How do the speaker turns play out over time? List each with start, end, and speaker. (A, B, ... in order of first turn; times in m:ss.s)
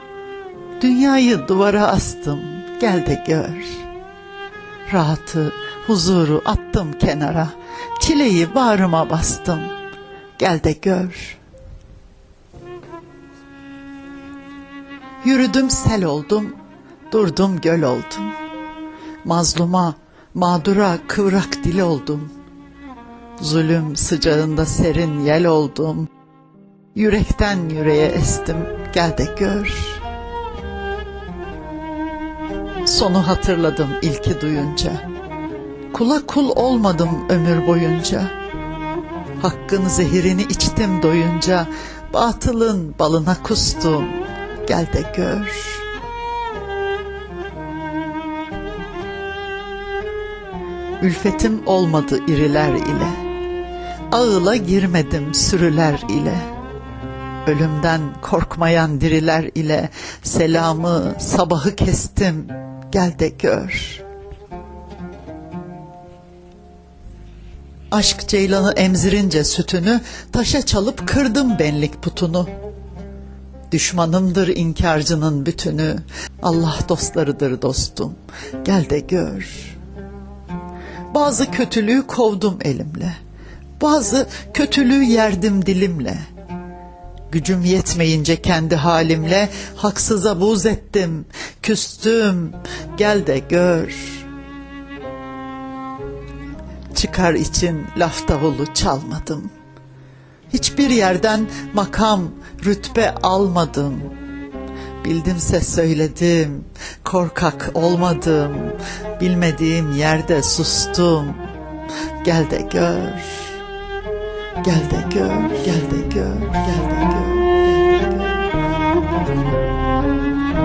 0:00.8-0:03.8 A
0:04.9-0:09.7 A
0:10.4-0:11.4 A
0:15.2-0:16.6 A
0:17.1-0:18.4 A
0:19.2-0:22.3 A
0:23.4-0:26.1 A
0:26.9-0:30.0 A
0:32.8-0:35.0 A
0:35.9-0:38.3 A
0:39.4-0:45.9 A
0:51.0-0:53.2 A
0:54.1-0:56.5 A
0:57.4-1:04.0 A
1:07.9-1:12.5 A
1:13.7-1:19.8 A
1:21.1-1:23.2 A
1:23.8-1:26.2 A
1:27.3-1:34.3 A
1:36.9-1:39.5 A
1:40.5-1:44.1 A
1:45.0-1:51.4 A
1:52.2-1:53.6 A
1:54.6-1:58.5 A